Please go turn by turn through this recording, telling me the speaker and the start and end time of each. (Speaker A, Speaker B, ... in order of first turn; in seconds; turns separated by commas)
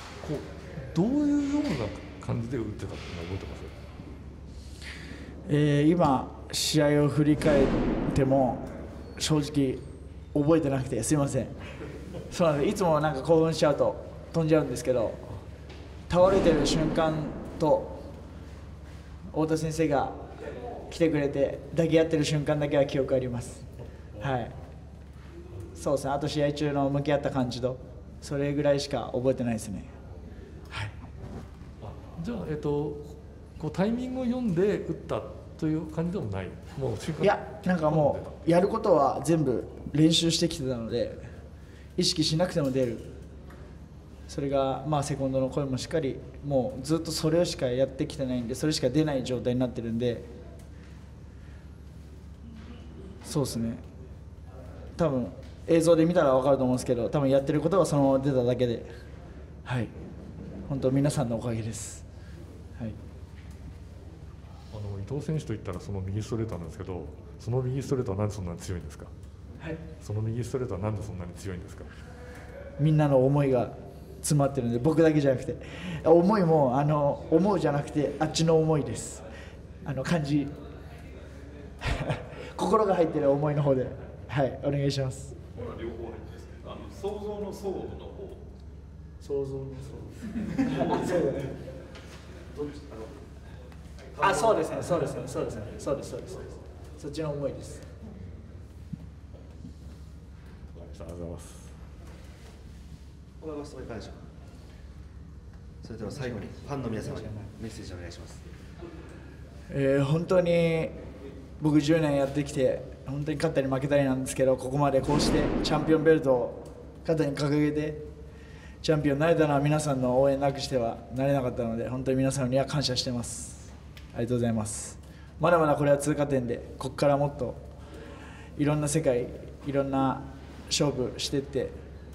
Speaker A: 0.2-3.7, Speaker B: 5.5-11.6, Speaker B: 12.3-15.3, Speaker B: 16.1-18.0, Speaker B: 19.3-20.2, Speaker B: 20.9-24.6, Speaker B: 25.7-29.9, Speaker A: 31.8-38.5, Speaker B: 37.2-41.2, Speaker B: 42.0-43.1, Speaker B: 44.3-50.3, Speaker B: 53.2-53.8, Speaker B: 55.0-58.9, Speaker B: 59.6-59.9, Speaker B: 60.7-62.0, Speaker A: 64.7-69.1, Speaker A: 70.0-71.9, Speaker B: 72.8-79.2, Speaker B: 79.8-80.5, Speaker B: 81.8-85.4, Speaker C: 85.5-88.4, Speaker B: 89.2-91.5, Speaker C: 90.7-91.0, Speaker B: 94.2-97.9, Speaker A: 100.7-101.7, Speaker D: 103.4-104.2, Speaker D: 105.8-108.4, Speaker B: 109.7-110.9, Speaker B: 111.6-118.0, Speaker B: 118.8-127.6, Speaker B: 128.6-131.7